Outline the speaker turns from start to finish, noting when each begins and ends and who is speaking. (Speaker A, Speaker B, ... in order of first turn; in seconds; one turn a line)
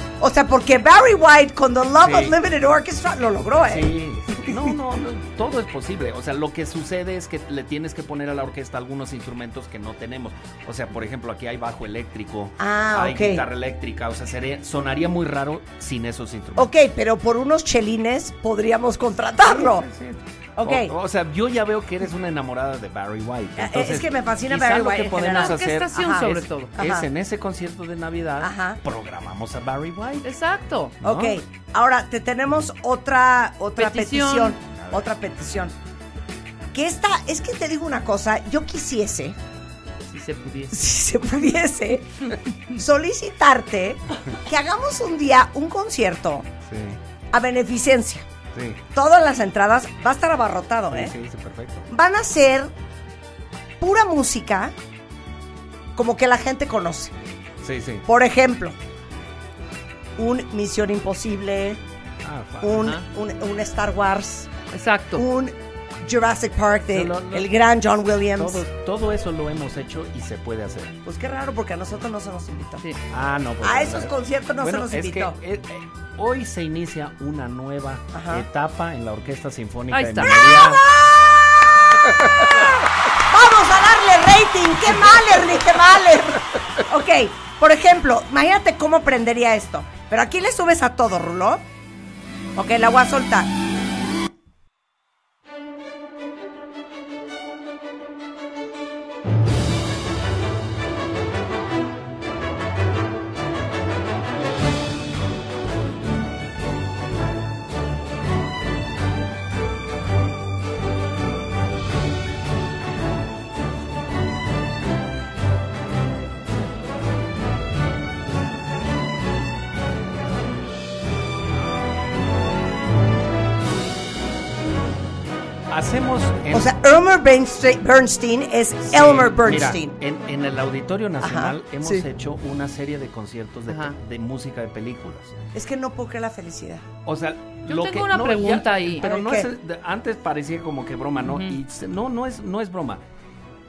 Speaker A: 0.2-4.7
Speaker B: 2.0-2.4
Speaker B: 3.5-16.7
Speaker A: 12.6-13.4
Speaker A: 16.5-19.9
Speaker B: 19.4-30.3
Speaker A: 20.6-20.9
Speaker A: 23.6-27.1
Speaker C: 25.2-26.7
Speaker A: 28.4-28.8
Speaker C: 30.2-31.0
Speaker B: 31.0-31.4
Speaker A: 31.0-35.7
Speaker C: 33.8-34.6
Speaker A: 36.7-39.4
Speaker C: 40.1-40.9
Speaker A: 40.7-46.5
Speaker B: 46.6-47.0
Speaker A: 47.3-48.3
Speaker B: 48.5-48.8
Speaker A: 48.9-51.1
Speaker B: 50.9-51.9
Speaker A: 51.9-52.7
Speaker A: 53.8-54.7
Speaker A: 56.0-57.1
Speaker B: 57.6-58.1
Speaker A: 58.0-58.8
Speaker A: 60.2-61.8
Speaker B: 62.2-62.9
Speaker A: 62.6-64.5
Speaker C: 62.8-63.0
Speaker C: 64.7-65.2
Speaker A: 65.1-68.6
Speaker B: 66.9-67.5
Speaker B: 68.3-71.0
Speaker A: 71.0-72.8
Speaker B: 73.1-80.9
Speaker A: 73.6-75.4
Speaker A: 78.1-78.5
Speaker C: 79.9-80.5
Speaker A: 80.3-91.6
Speaker A: 92.5-93.5
Speaker B: 125.7-126.7
Speaker A: 126.5-129.9
Speaker B: 128.9-135.3
Speaker A: 131.2-132.1
Speaker C: 133.7-133.9
Speaker A: 135.5-136.9
Speaker B: 137.0-143.0
Speaker C: 137.7-139.1
Speaker A: 139.0-139.5
Speaker C: 141.2-141.6